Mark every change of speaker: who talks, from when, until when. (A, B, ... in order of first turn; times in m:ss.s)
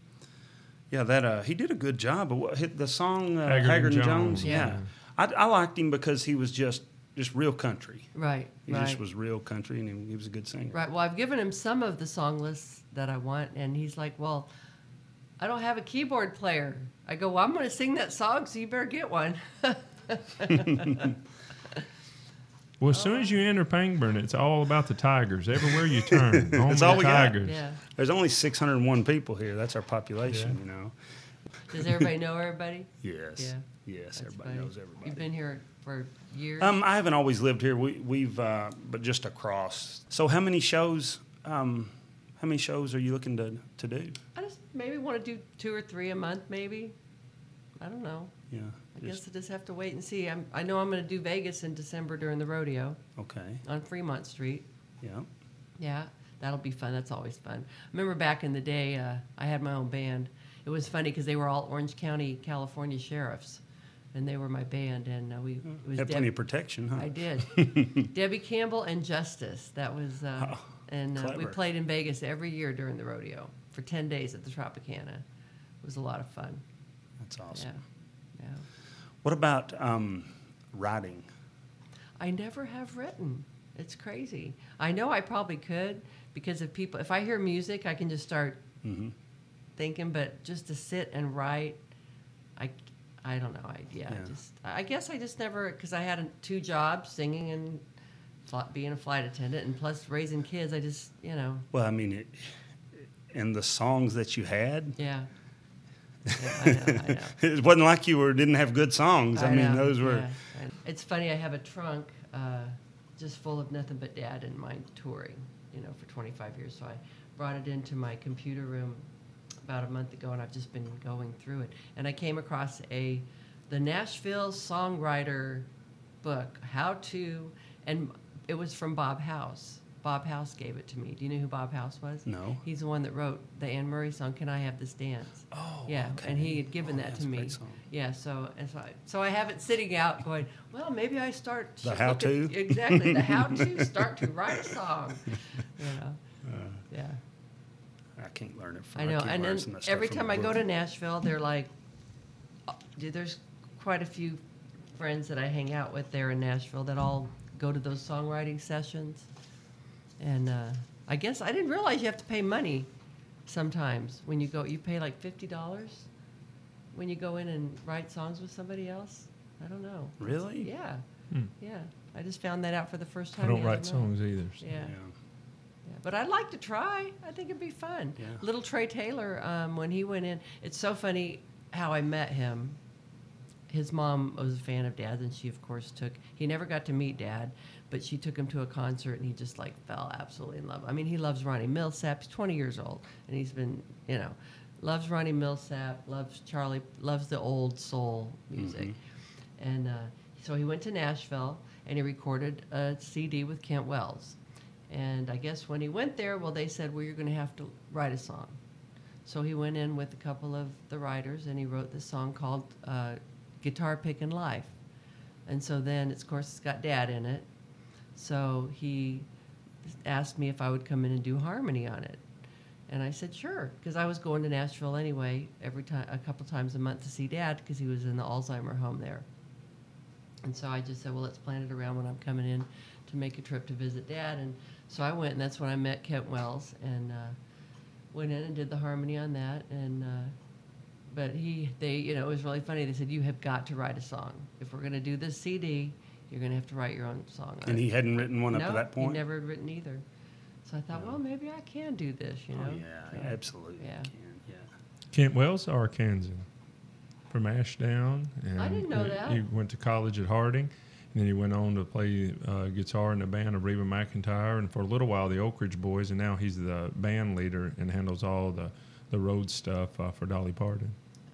0:00.9-0:08.1 A
0:03.5-0:04.9 B
0:04.4-0:04.8 C
0:08.2-0:09.0 C
0:08.7-0:10.8 A
0:10.7-0:14.5 C
0:15.4-0:21.2 C
0:20.7-0:21.0 A
0:22.8-0:27.6 B
0:22.9-0:23.4 C
0:26.1-0:31.0 A
0:26.9-0:27.8 C
0:30.3-0:30.6 B
0:31.7-0:36.8 C
0:33.0-0:35.3 A
0:36.6-0:44.2 A
0:44.4-0:46.9 C
0:47.8-0:48.3 C
0:48.5-0:49.2 A
0:49.0-0:53.0 C
0:53.2-0:53.6 A
0:53.6-0:54.7 C
0:55.0-0:55.3 A
0:55.8-1:03.6 C
1:04.1-1:06.3 C
1:05.8-1:08.1 A
1:06.9-1:15.2 C
1:10.4-1:11.6 A
1:15.8-1:16.6 C
1:17.2-1:17.7 A
1:17.5-1:17.8 C
1:18.4-1:18.6 C
1:19.2-1:21.3 A
1:22.2-1:28.6 C
1:28.8-1:29.2 A
1:29.8-1:31.8 C
1:32.6-1:37.8 C
1:38.5-1:41.7 C
1:41.7-1:45.0 A
1:45.0-1:45.3 C
1:46.3-1:50.3 A
1:46.3-1:47.4 C
1:49.3-1:59.1 C
1:59.6-2:05.7 C
2:06.2-2:26.2 C
2:12.3-2:12.6 A
2:15.5-2:17.8 A
2:21.8-2:23.9 A
2:26.4-2:26.8 A
2:26.9-2:27.2 C
2:28.2-2:30.6 A
2:29.0-2:31.7 C
2:32.7-2:34.4 C
2:35.0-2:39.3 C
2:40.2-2:42.9 C
2:43.5-2:46.1 C
2:46.9-2:51.0 C
2:50.2-2:50.7 A
2:51.6-2:54.1 C
2:53.4-2:54.6 B
2:54.6-2:54.9 C
2:54.7-2:55.1 A
2:55.9-3:02.8 C
3:03.7-3:19.0 C
3:18.6-3:19.0 A
3:19.6-3:24.4 C
3:24.9-3:28.6 C
3:29.2-3:34.8 C
3:35.5-3:37.5 C
3:38.2-3:39.3 C
3:39.9-3:42.2 C
3:42.9-3:49.3 C
3:50.4-3:57.4 C
3:58.1-4:00.4 C
4:01.1-4:07.9 C
4:07.6-4:09.2 A
4:08.5-4:10.0 C
4:10.6-4:14.1 C
4:10.9-4:11.2 A
4:12.5-4:14.7 A
4:15.1-4:16.5 B
4:17.3-4:31.0 B
4:18.6-4:19.4 C